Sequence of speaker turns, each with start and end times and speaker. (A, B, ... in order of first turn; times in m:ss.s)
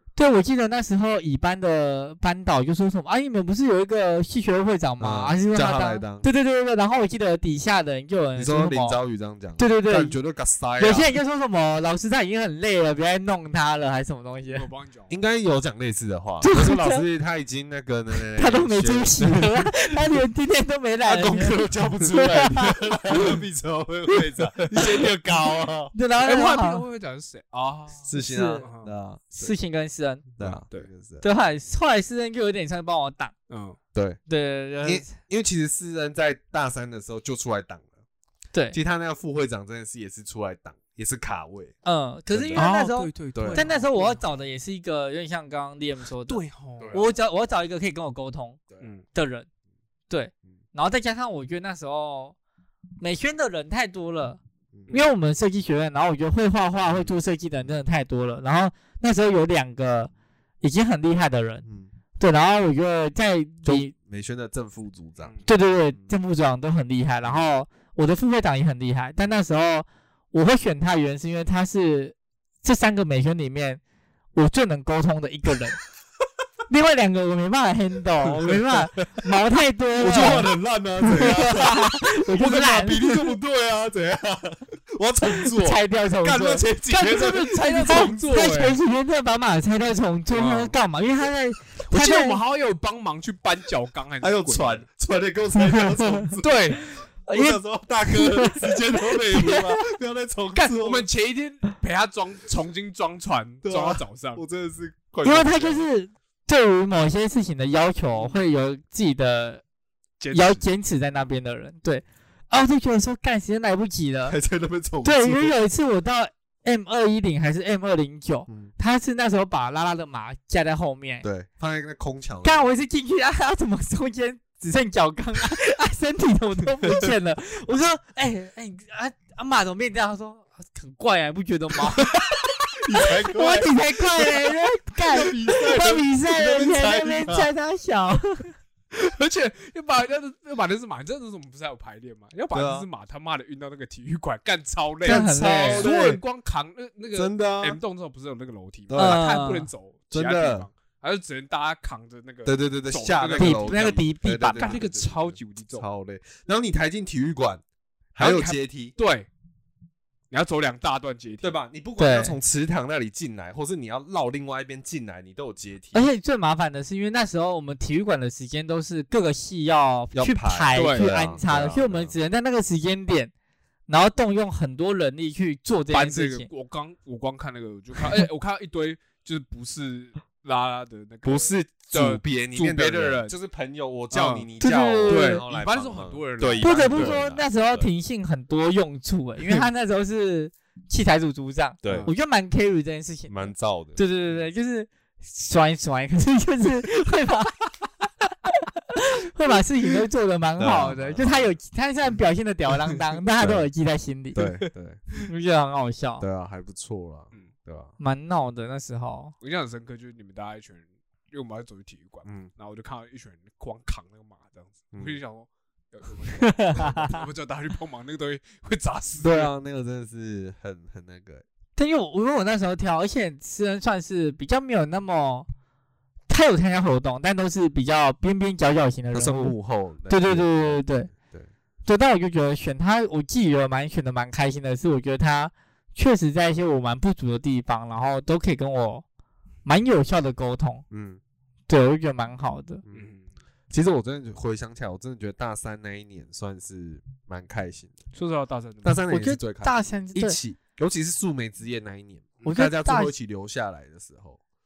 0:00.2-0:09.0 A
0:05.0-0:06.3 B
0:08.4-0:11.1 B
0:09.6-0:10.2 A
0:10.8-0:14.7 A
0:14.5-0:15.2 C
0:15.1-0:20.2 B
0:16.4-0:17.0 A
0:18.3-0:22.8 A
0:21.0-0:25.9 B
0:24.6-0:25.1 C
0:25.9-0:26.8 A
0:26.2-0:28.1 C
0:28.0-0:29.5 B
0:28.2-0:28.7 A
0:28.6-0:28.9 C
0:29.3-0:30.3 A
0:30.4-0:31.2 B
0:30.4-0:30.9 C
0:31.2-0:33.3 A
0:33.5-0:33.8 C
0:33.9-0:34.2 B
0:34.3-0:35.1 A
0:34.8-0:37.9 B
0:38.5-0:38.8 A
0:38.7-0:41.8 B
0:41.8-0:48.6 A
0:42.3-0:42.7 B
0:42.6-0:44.2 C
0:43.3-0:43.7 B
0:46.3-0:47.0 C
0:46.8-0:47.1 B
0:49.1-0:49.5 A
0:50.1-0:52.4 A
0:53.0-1:01.6 A
1:01.6-1:01.9 B
1:02.2-1:03.9 A
1:03.6-1:05.4 B
1:05.2-1:05.5 C
1:05.4-1:13.8 A
1:14.4-1:15.8 A
1:16.7-1:23.3 A
1:18.5-1:18.8 B
1:20.0-1:28.3 B
1:25.6-1:32.4 A
1:26.9-1:28.8 C
1:30.3-1:30.8 C
1:31.9-1:34.8 C
1:34.2-1:41.1 B
1:35.6-1:36.4 A
1:36.4-1:36.8 C
1:37.3-1:39.7 A
1:40.6-1:44.4 C
1:43.6-1:45.8 B
1:45.2-1:49.6 A
1:50.2-1:50.7 C
1:50.3-1:54.4 A
1:54.3-1:55.6 B
1:55.0-2:01.3 A
2:01.2-2:02.7 B
2:02.4-2:12.2 A
2:12.8-2:14.5 B
2:13.0-2:18.5 A
2:15.1-2:17.5 B
2:19.0-2:33.8 C
2:22.5-2:22.9 B
2:25.0-2:25.9 A
2:25.0-2:26.2 B
2:27.1-2:27.8 B
2:28.9-2:29.3 B
2:29.0-2:29.7 A
2:30.1-2:30.7 B
2:32.4-2:37.6 B
2:33.4-2:34.8 A
2:34.6-2:35.9 C
2:38.2-2:39.0 B
2:38.2-2:39.3 C
2:40.3-2:41.6 C
2:41.4-2:46.0 B
2:42.0-2:42.4 A
2:45.9-2:53.3 A
2:50.1-2:52.2 B
2:50.7-2:51.1 C
2:53.9-2:56.5 A
2:55.9-3:03.4 C
3:01.2-3:07.9 B
3:04.1-3:04.5 C
3:04.6-3:05.4 A
3:05.1-3:07.2 C
3:06.6-3:17.6 A
3:11.8-3:12.1 B
3:11.8-3:12.1 C
3:13.3-3:14.5 B
3:18.4-3:24.5 A
3:20.6-3:21.6 B
3:23.4-3:23.7 B
3:24.4-3:25.0 B
3:25.3-3:26.2 A
3:26.2-3:27.9 B
3:28.0-3:29.4 A
3:29.4-3:39.5 C
3:32.2-3:32.5 B
3:34.9-3:35.2 B
3:36.4-3:37.3 A
3:39.2-3:41.4 B
3:41.8-3:45.5 A
3:46.3-3:49.6 A
3:49.1-3:51.5 B
3:50.1-3:51.1 A
3:51.9-3:59.0 A
3:59.6-4:00.8 A
4:00.9-4:01.2 B
4:01.7-4:02.8 A
4:02.8-4:03.1 B
4:02.9-4:03.3 C
4:03.7-4:08.0 B
4:08.1-4:09.0 C
4:08.8-4:14.4 B
4:09.1-4:10.4 A
4:12.4-4:13.1 A